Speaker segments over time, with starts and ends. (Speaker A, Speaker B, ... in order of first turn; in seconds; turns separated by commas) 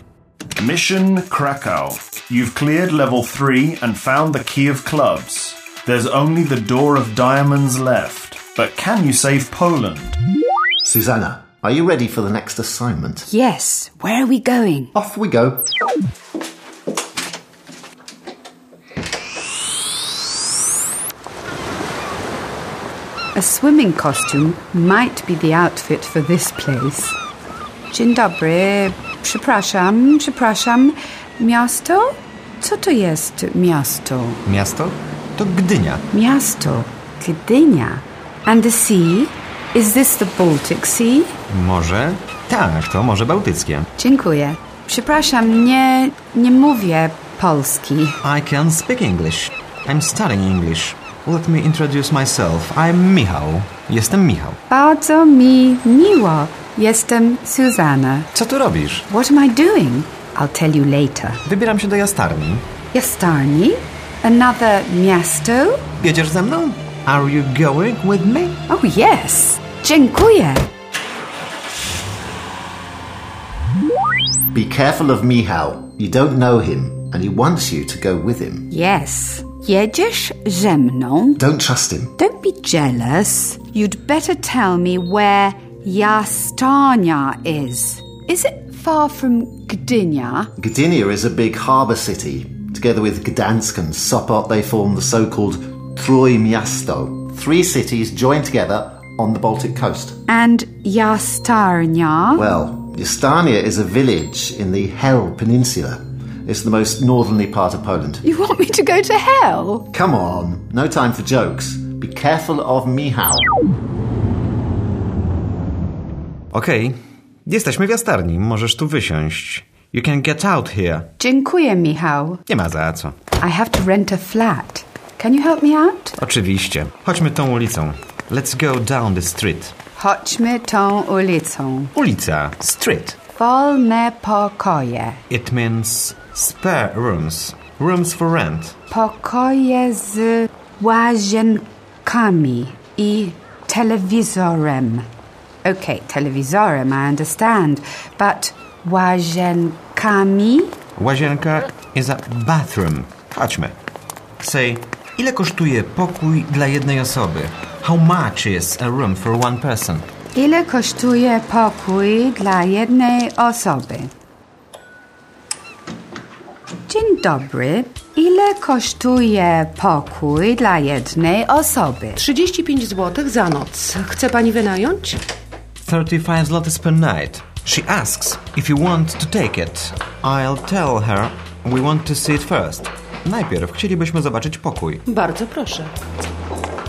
Speaker A: 0.6-10.2, Speaker B: 10.8-13.2, Speaker C: 13.2-14.9, Speaker B: 14.9-15.6, Speaker C: 23.3-27.2, Speaker C: 27.9-34.4, Speaker D: 34.5-36.1, Speaker C: 36.1-41.4, Speaker D: 41.5-43.9, Speaker C: 44.0-48.2, Speaker D: 48.2-54.6, Speaker C: 54.7-58.3, Speaker D: 58.3-59.0, Speaker C: 59.1-61.4, Speaker D: 61.4-62.7, Speaker C: 62.9-65.8, Speaker D: 66.0-68.6, Speaker C: 68.7-70.7, Speaker B: 74.5-78.7, Speaker C: 78.7-81.4, Speaker B: 81.4-82.1, Speaker C: 82.2-90.5, Speaker B: 90.6-100.2, Speaker C: 100.3-102.5, Speaker B: 102.3-108.2, Speaker C: 108.2-109.9, Speaker B: 109.9-113.5, Speaker D: 116.5-121.1, Speaker C: 121.2-122.4, Speaker D: 122.5-123.2, Speaker C: 123.4-126.2, Speaker D: 126.2-129.7, Speaker C: 129.9-131.9, Speaker D: 131.9-133.2, Speaker C: 133.3-135.2, Speaker D: 135.3-138.8, Speaker C: 138.9-145.1, Speaker C: 145.6-150.8, Speaker D: 150.9-153.8, Speaker D: 154.4-160.1, Speaker C: 160.3-164.1, Speaker C: 166.9-172.2, Speaker E: 172.2-175.2, Speaker D: 175.8-185.0, Speaker E: 185.1-185.9